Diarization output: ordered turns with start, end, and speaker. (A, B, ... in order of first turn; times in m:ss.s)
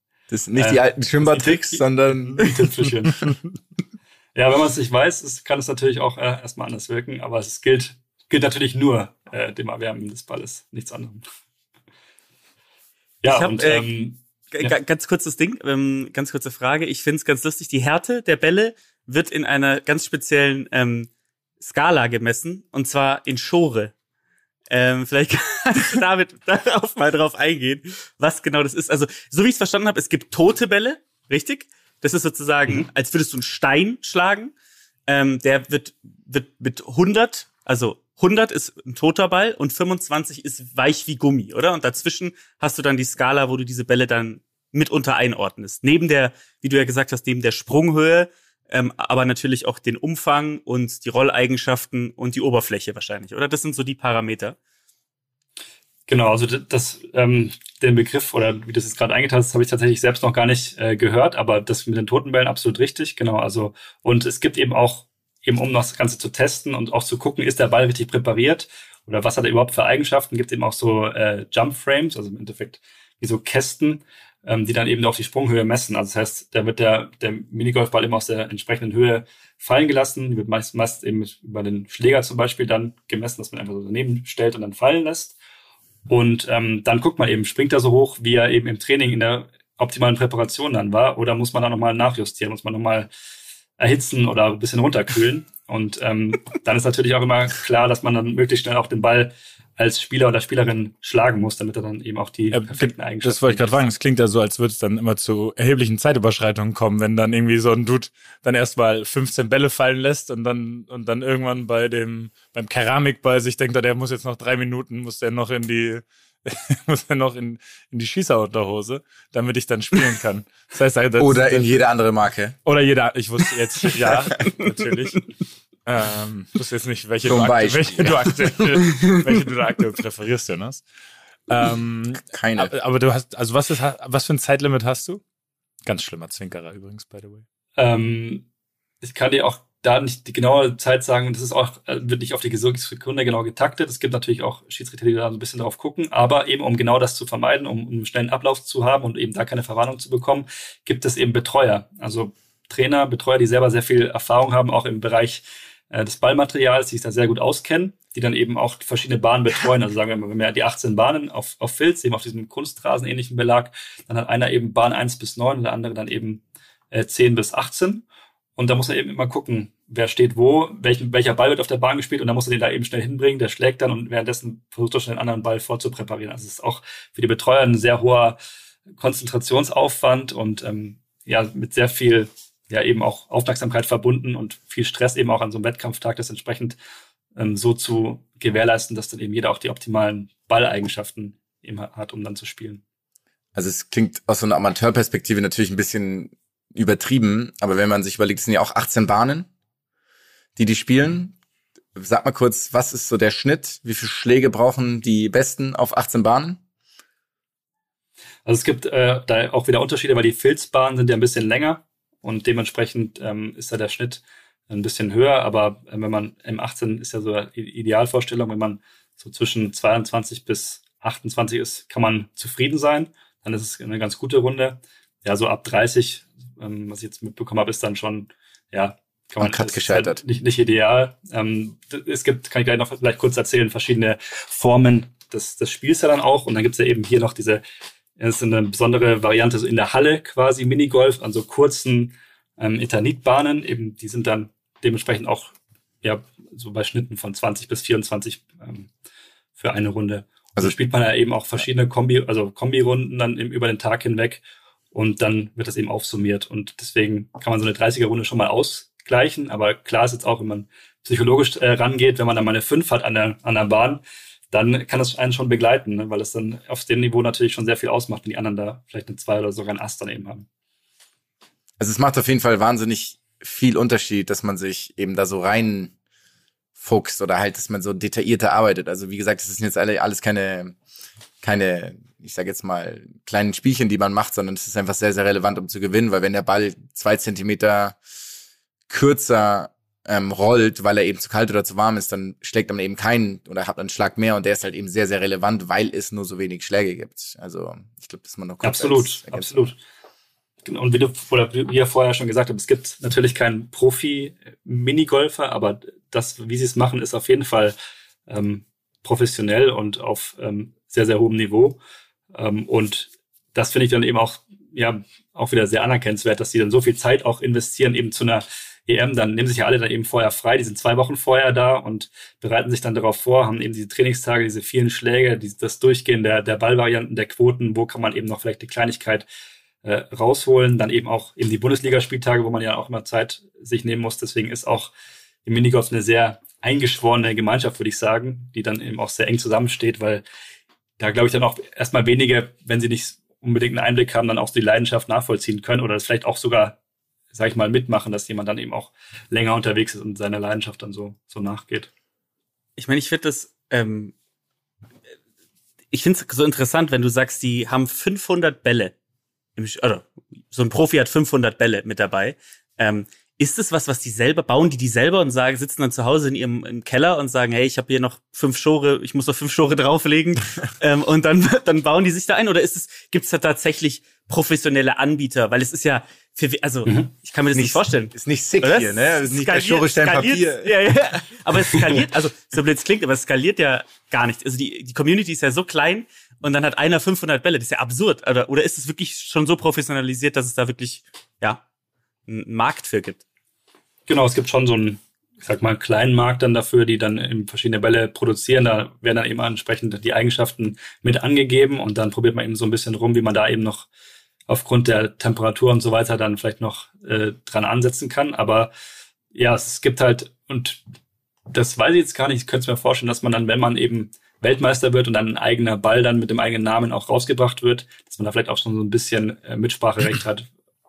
0:00.3-0:02.5 A
0:00.5-0:03.3 B
0:04.3-0:11.2 B
0:13.2-0:14.7 B
0:13.3-0:13.9 C
0:14.5-0:21.1 C
0:21.6-0:23.9 C
0:24.7-0:34.5 C
0:35.1-0:54.6 C
0:56.1-1:25.4 B
1:26.1-1:33.1 B
1:33.8-1:43.8 B
1:42.5-2:01.8 D
2:01.2-2:02.6 A
2:02.6-2:05.2 D
2:05.8-2:10.8 D
2:07.2-2:08.5 A
2:11.5-2:15.2 D
2:12.2-2:12.7 A
2:15.8-2:17.4 D
2:17.8-2:18.4 B
2:19.0-2:48.0 B
2:48.6-2:58.4 B
2:59.0-3:06.8 B
3:07.4-3:12.8 B
3:13.5-3:19.5 A
3:20.6-3:21.4 A
3:21.9-3:26.6 A
3:28.4-3:57.6 B
3:49.4-3:50.2 A
3:58.2-4:08.9 B
4:09.6-4:14.4 B
4:14.9-4:30.5 B
4:31.8-4:35.9 A
4:36.8-4:40.8 A
4:41.4-4:48.0 A
4:48.9-4:59.7 A
4:58.6-4:59.8 B
5:00.6-5:07.7 B
5:08.3-5:11.8 B
5:12.3-5:29.2 B
5:29.8-5:34.9 B
5:35.4-5:40.2 B
5:41.0-5:46.8 B
5:47.3-5:51.9 B
5:52.8-5:54.1 C
5:55.9-5:58.9 C
5:59.6-6:31.6 C
6:17.5-6:20.8 A
6:32.3-6:33.2 C
6:34.1-6:43.9 B
6:44.5-6:48.7 B
6:49.3-6:50.8 B
6:51.5-7:00.5 B